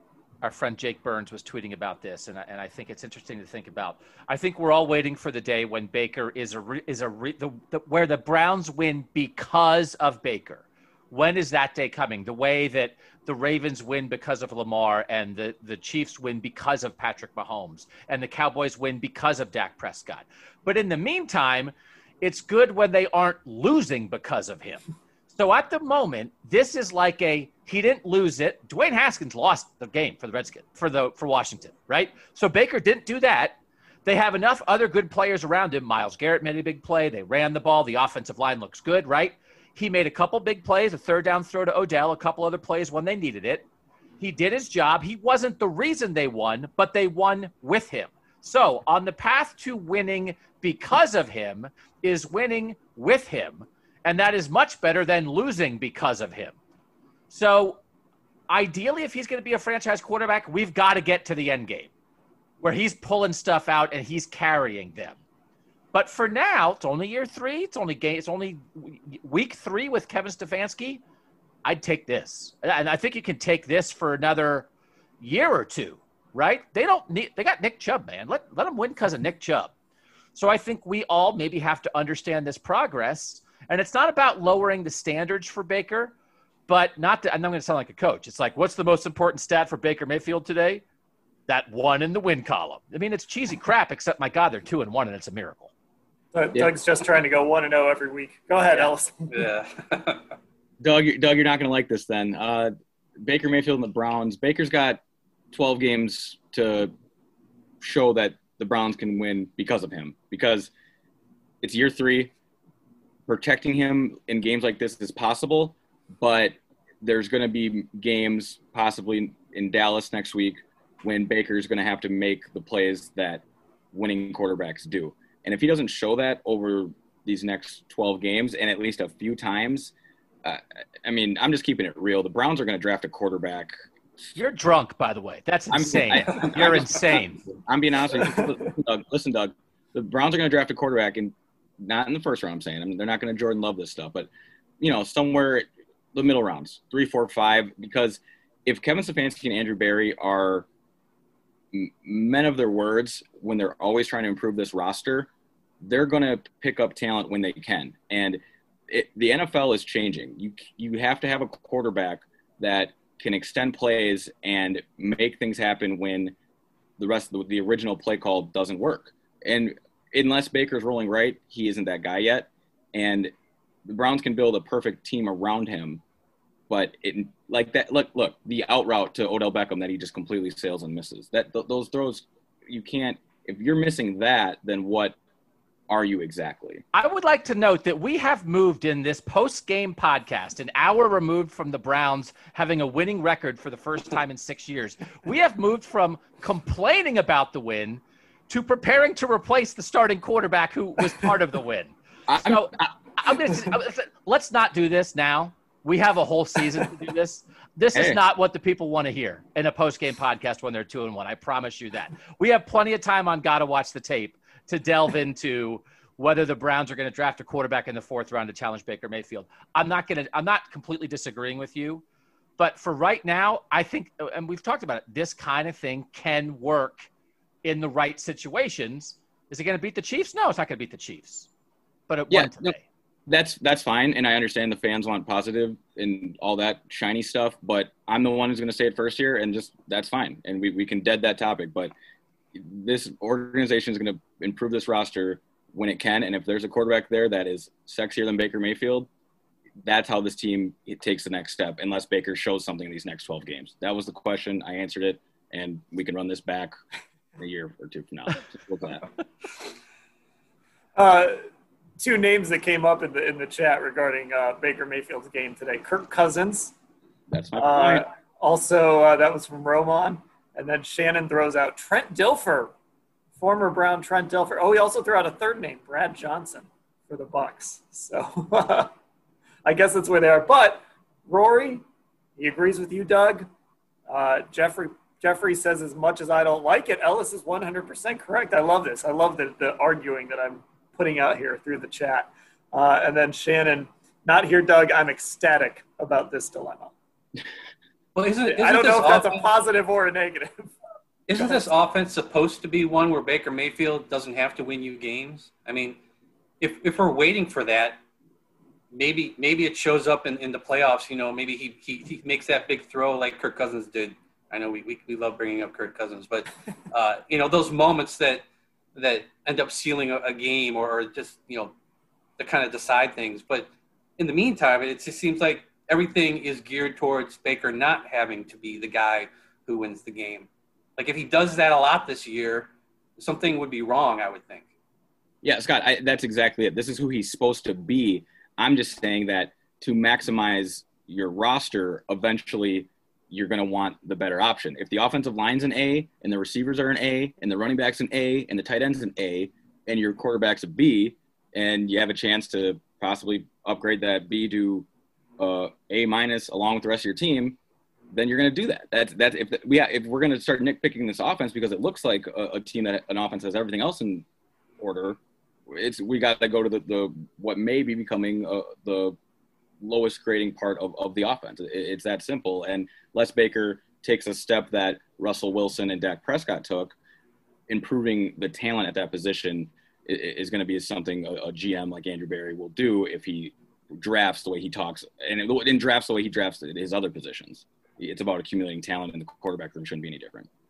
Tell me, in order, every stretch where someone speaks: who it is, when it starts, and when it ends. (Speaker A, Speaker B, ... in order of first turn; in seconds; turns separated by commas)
Speaker A: 0.4-43.7, Speaker A: 44.2-56.6, Speaker A: 57.3-57.8, Speaker A: 58.5-61.9, Speaker A: 62.6-65.2, Speaker A: 65.9-71.0, Speaker A: 71.7-74.7, Speaker A: 75.2-79.7, Speaker A: 80.3-86.1, Speaker A: 86.7-90.8, Speaker A: 91.5-95.7, Speaker B: 96.3-99.3, Speaker C: 98.7-100.3, Speaker D: 100.8-105.0, Speaker D: 105.5-106.9, Speaker D: 107.8-110.7, Speaker D: 111.6-112.3, Speaker D: 113.3-133.7, Speaker A: 134.3-137.4, Speaker D: 135.7-144.3, Speaker D: 144.8-150.7, Speaker D: 151.7-155.3, Speaker D: 155.8-166.4, Speaker D: 167.0-173.3, Speaker D: 173.8-176.0, Speaker D: 176.7-185.2, Speaker D: 185.9-186.8, Speaker A: 186.9-222.0, Speaker D: 202.3-202.9, Speaker D: 207.9-208.2, Speaker A: 222.6-227.1, Speaker A: 227.6-231.5, Speaker A: 232.1-232.8, Speaker D: 232.3-232.7, Speaker D: 233.3-241.9, Speaker D: 242.5-249.1, Speaker D: 249.8-256.8, Speaker D: 257.4-259.1, Speaker B: 261.0-261.4, Speaker B: 262.0-266.8, Speaker D: 267.3-268.1, Speaker B: 267.6-272.7, Speaker B: 273.4-278.9, Speaker B: 279.6-281.8, Speaker B: 282.4-283.5, Speaker B: 284.1-296.9, Speaker C: 298.1-299.5, Speaker B: 298.5-300.7, Speaker C: 301.3-306.0, Speaker B: 301.3-301.8, Speaker C: 306.6-308.0, Speaker C: 308.9-321.7, Speaker C: 322.4-334.7, Speaker D: 335.4-354.9, Speaker D: 355.4-357.6, Speaker D: 358.1-364.3, Speaker D: 364.8-369.2, Speaker D: 369.8-377.0, Speaker D: 377.7-390.5